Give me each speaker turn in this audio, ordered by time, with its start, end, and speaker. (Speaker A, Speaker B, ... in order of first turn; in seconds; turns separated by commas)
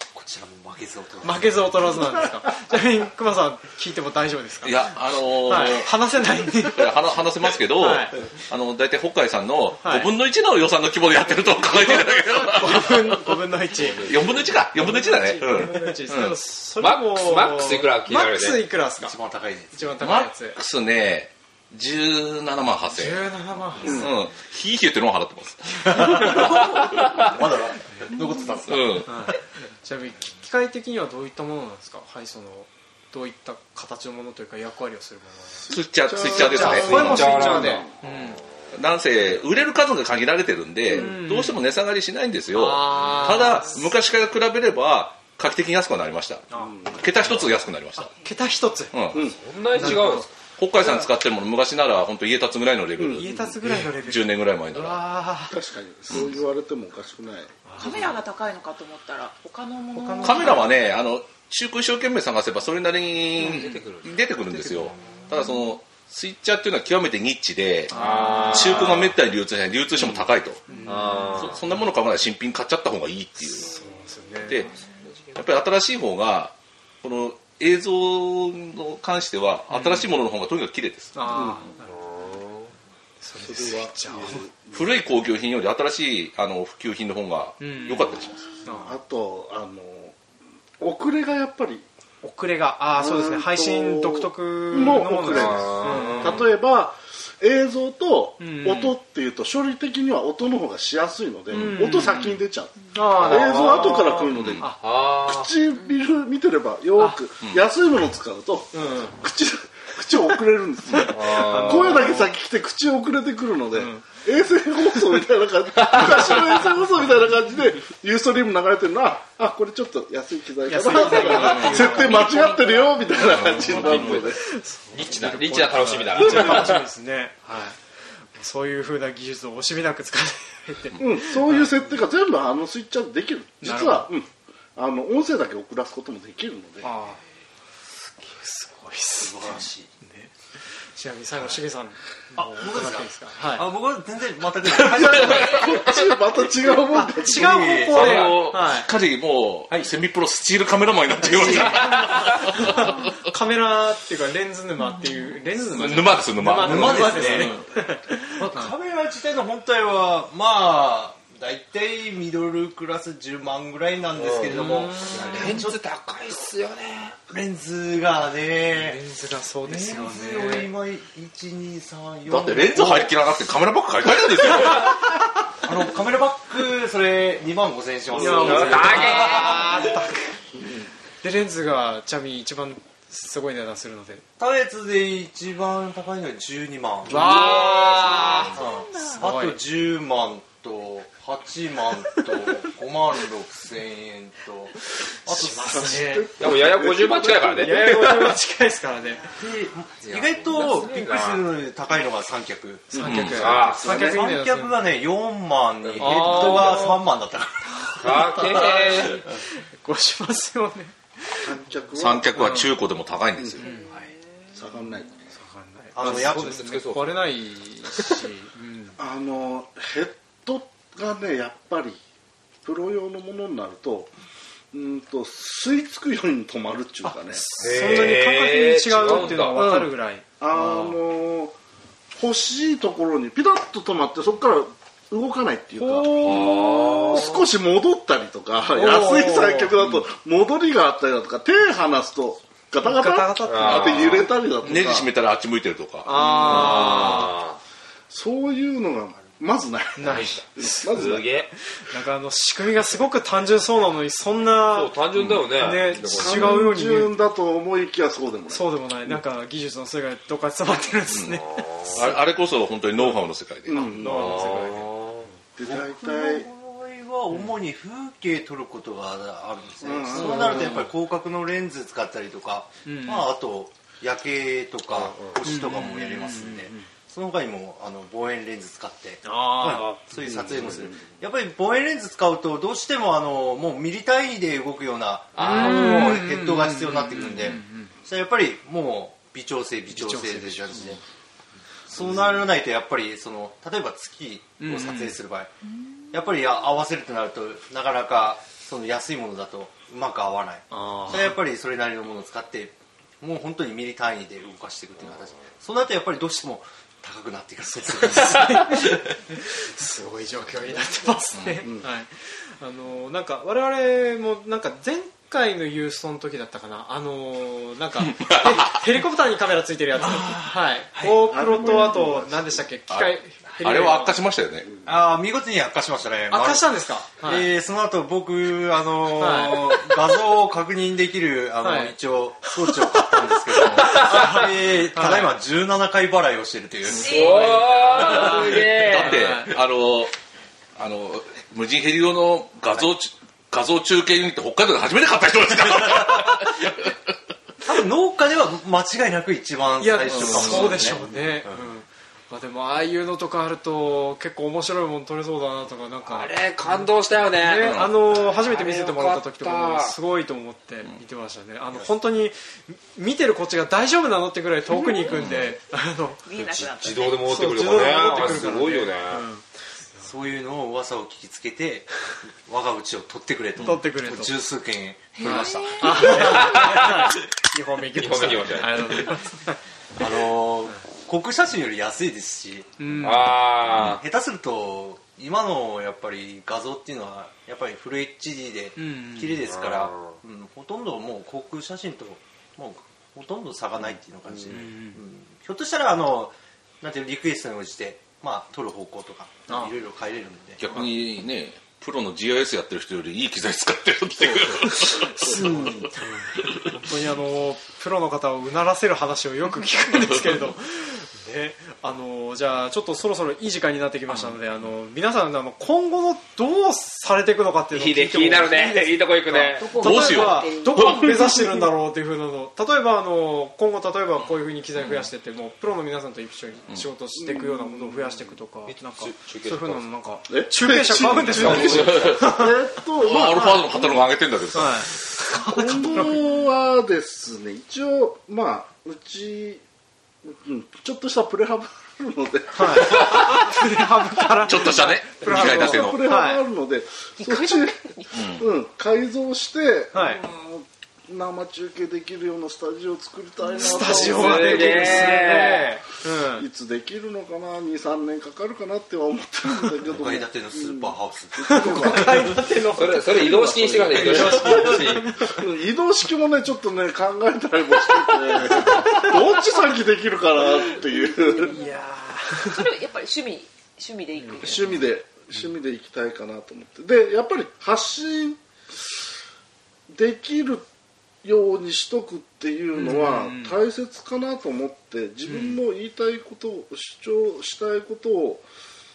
Speaker A: 0.1-2.0, Speaker B: 1.2-4.9, Speaker C: 4.6-13.4, Speaker B: 5.4-7.0, Speaker B: 7.7-8.1, Speaker B: 9.8-10.1, Speaker B: 11.7-14.1, Speaker D: 13.8-14.3, Speaker C: 13.9-16.4, Speaker B: 14.7-19.1, Speaker D: 16.8-18.6, Speaker A: 19.0-20.0, Speaker B: 19.7-20.6, Speaker C: 20.0-23.3, Speaker B: 22.9-24.1, Speaker C: 23.8-26.5, Speaker E: 23.8-24.1, Speaker A: 25.9-29.1, Speaker B: 25.9-26.4, Speaker C: 28.7-29.3, Speaker B: 29.0-38.4, Speaker E: 35.6-37.9, Speaker C: 35.7-37.6, Speaker D: 36.7-37.8, Speaker C: 38.7-48.1, Speaker B: 40.9-41.6, Speaker B: 42.5-43.9, Speaker B: 46.5-46.8, Speaker E: 46.5-47.1, Speaker B: 48.0-50.3, Speaker C: 48.9-55.0, Speaker D: 49.4-50.4, Speaker E: 53.0-53.2, Speaker B: 53.1-55.5, Speaker E: 55.5-57.6, Speaker B: 57.7-58.1, Speaker F: 57.8-60.7, Speaker B: 59.9-60.7, Speaker C: 60.2-70.6, Speaker D: 63.4-64.2, Speaker B: 67.9-69.1, Speaker D: 67.9-69.0, Speaker B: 70.0-71.5, Speaker D: 70.7-71.6, Speaker C: 71.3-73.7, Speaker B: 73.4-74.7, Speaker C: 74.5-74.7, Speaker D: 75.0-75.4, Speaker C: 75.3-81.2, Speaker B: 79.7-80.1, Speaker B: 81.1-82.0, Speaker E: 81.3-81.6, Speaker D: 82.0-82.7, Speaker B: 83.2-84.5, Speaker E: 83.4-84.8, Speaker C: 84.7-88.4, Speaker B: 87.6-88.9, Speaker E: 88.7-90.2, Speaker E: 90.8-91.8, Speaker B: 92.2-96.4, Speaker E: 93.0-124.4, Speaker D: 95.2-96.4, Speaker B: 98.4-99.0, Speaker B: 101.5-104.8, Speaker C: 104.3-104.7, Speaker D: 104.8-105.5, Speaker B: 108.7-109.2, Speaker B: 111.0-112.3, Speaker D: 111.1-112.1, Speaker B: 113.7-114.0, Speaker D: 115.8-116.5, Speaker B: 120.6-122.8, Speaker C: 121.3-121.9, Speaker F: 122.3-122.6, Speaker C: 123.3-124.2, Speaker B: 123.3-127.8, Speaker D: 123.5-124.4, Speaker D: 124.9-126.8, Speaker B: 128.3-131.8, Speaker E: 131.0-136.9, Speaker B: 133.6-134.1, Speaker B: 136.8-137.2, Speaker B: 138.2-140.3, Speaker A: 139.2-139.9, Speaker B: 140.9-143.7, Speaker A: 142.3-145.9, Speaker E: 144.6-147.8, Speaker C: 145.3-145.7, Speaker B: 146.9-148.9, Speaker A: 147.2-148.3, Speaker C: 147.9-153.2, Speaker D: 147.9-148.5, Speaker B: 151.2-158.7, Speaker C: 155.7-157.7, Speaker A: 156.5-157.6, Speaker A: 158.3-165.8, Speaker D: 164.1-167.2, Speaker B: 164.5-165.6, Speaker A: 167.3-169.0, Speaker B: 168.7-170.7, Speaker A: 169.6-173.1, Speaker C: 172.2-175.1, Speaker A: 175.6-179.9, Speaker D: 178.1-179.8, Speaker B: 178.1-180.4, Speaker B: 181.2-184.2, Speaker A: 184.4-195.9, Speaker B: 187.1-189.6, Speaker D: 187.1-188.4, Speaker F: 187.5-189.2, Speaker B: 195.2-196.3, Speaker E: 195.4-198.0, Speaker D: 196.4-198.4, Speaker B: 197.6-199.2, Speaker A: 199.3-208.3, Speaker D: 200.0-201.5, Speaker B: 202.9-204.9, Speaker C: 203.0-203.7, Speaker D: 203.3-204.1, Speaker D: 205.8-207.0, Speaker B: 206.0-207.0, Speaker B: 207.7-212.7, Speaker D: 208.0-209.2, Speaker E: 211.4-212.4, Speaker C: 212.0-213.7, Speaker B: 213.6-213.9, Speaker E: 214.5-215.1, Speaker B: 215.3-219.0, Speaker A: 215.9-216.8, Speaker D: 216.0-217.2, Speaker E: 219.0-222.0, Speaker E: 222.6-224.1, Speaker E: 224.7-227.5, Speaker B: 227.0-230.9, Speaker D: 227.6-229.6, Speaker E: 229.3-231.6, Speaker E: 232.2-245.1, Speaker B: 235.8-236.8, Speaker D: 236.1-237.3, Speaker B: 238.7-240.0, Speaker B: 242.8-244.2, Speaker D: 243.4-244.3, Speaker C: 243.7-247.1, Speaker B: 246.0-247.3, Speaker D: 246.1-247.6, Speaker E: 248.1-251.2, Speaker B: 250.0-251.2, Speaker D: 250.9-251.5, Speaker B: 251.7-257.1, Speaker D: 254.7-256.6, Speaker E: 256.1-258.7, Speaker B: 258.5-262.2, Speaker C: 261.1-264.0, Speaker D: 261.5-262.0, Speaker E: 263.6-264.7, Speaker B: 263.7-264.9, Speaker D: 264.0-265.3, Speaker E: 265.6-266.5, Speaker A: 265.6-291.0, Speaker E: 269.8-270.8, Speaker B: 270.4-270.8, Speaker B: 272.8-273.3, Speaker B: 275.4-276.9, Speaker B: 279.2-279.9, Speaker D: 279.7-280.0, Speaker D: 285.4-286.1, Speaker B: 285.4-287.9, Speaker B: 289.9-290.9, Speaker A: 291.9-295.5, Speaker B: 294.6-295.2, Speaker A: 296.1-309.1, Speaker B: 300.7-301.4, Speaker B: 308.1-324.2, Speaker C: 311.3-311.6, Speaker C: 318.0-318.9, Speaker A: 320.0-321.2, Speaker E: 321.2-322.6, Speaker C: 322.9-324.7, Speaker A: 324.8-337.4, Speaker B: 326.3-327.5, Speaker B: 329.1-329.9, Speaker B: 331.6-331.9, Speaker B: 333.8-335.4, Speaker F: 336.9-338.2, Speaker D: 336.9-339.2, Speaker B: 337.1-339.6, Speaker C: 338.2-340.1, Speaker C: 340.8-346.9, Speaker A: 347.6-351.6, Speaker B: 349.8-369.4, Speaker C: 350.1-350.9, Speaker D: 356.0-359.9, Speaker C: 357.6-358.1, Speaker F: 364.7-365.1, Speaker C: 365.1-365.5, Speaker F: 366.2-367.9, Speaker D: 366.6-369.2, Speaker A: 368.1-368.5, Speaker A: 370.0-376.9, Speaker B: 373.6-374.3, Speaker F: 375.1-376.6, Speaker B: 375.2-379.6, Speaker D: 376.0-377.1, Speaker D: 377.9-379.1, Speaker A: 380.0-382.8, Speaker B: 382.8-383.4, Speaker D: 383.0-384.0, Speaker A: 383.7-400.8, Speaker B: 388.8-389.4, Speaker D: 389.5-390.1, Speaker B: 394.5-395.0, Speaker B: 399.5-399.7, Speaker C: 400.6-406.9, Speaker B: 404.9-432.5, Speaker D: 417.7-419.8, Speaker F: 419.6-421.0, Speaker C: 419.7-421.4, Speaker E: 427.1-428.3, Speaker D: 428.7-429.8, Speaker E: 430.3-434.1, Speaker D: 431.3-432.1, Speaker C: 431.4-432.4, Speaker C: 433.0-435.0, Speaker B: 434.5-436.3, Speaker E: 435.3-439.6, Speaker E: 440.2-443.1, Speaker B: 442.5-446.4, Speaker C: 443.0-443.4, Speaker C: 444.4-446.1, Speaker E: 445.2-455.6, Speaker F: 447.2-448.2, Speaker C: 448.1-448.5, Speaker B: 449.9-450.2, Speaker B: 453.5-456.4, Speaker D: 453.9-455.7, Speaker E: 456.3-462.4, Speaker A: 459.9-462.2, Speaker B: 461.5-465.3, Speaker D: 462.7-465.1, Speaker E: 463.1-471.5, Speaker B: 468.5-469.1, Speaker F: 470.9-471.7, Speaker B: 471.4-472.7, Speaker F: 472.4-474.9, Speaker E: 474.4-478.9, Speaker E: 479.9-480.6, Speaker E: 481.2-488.5, Speaker B: 482.7-483.6, Speaker B: 485.2-485.6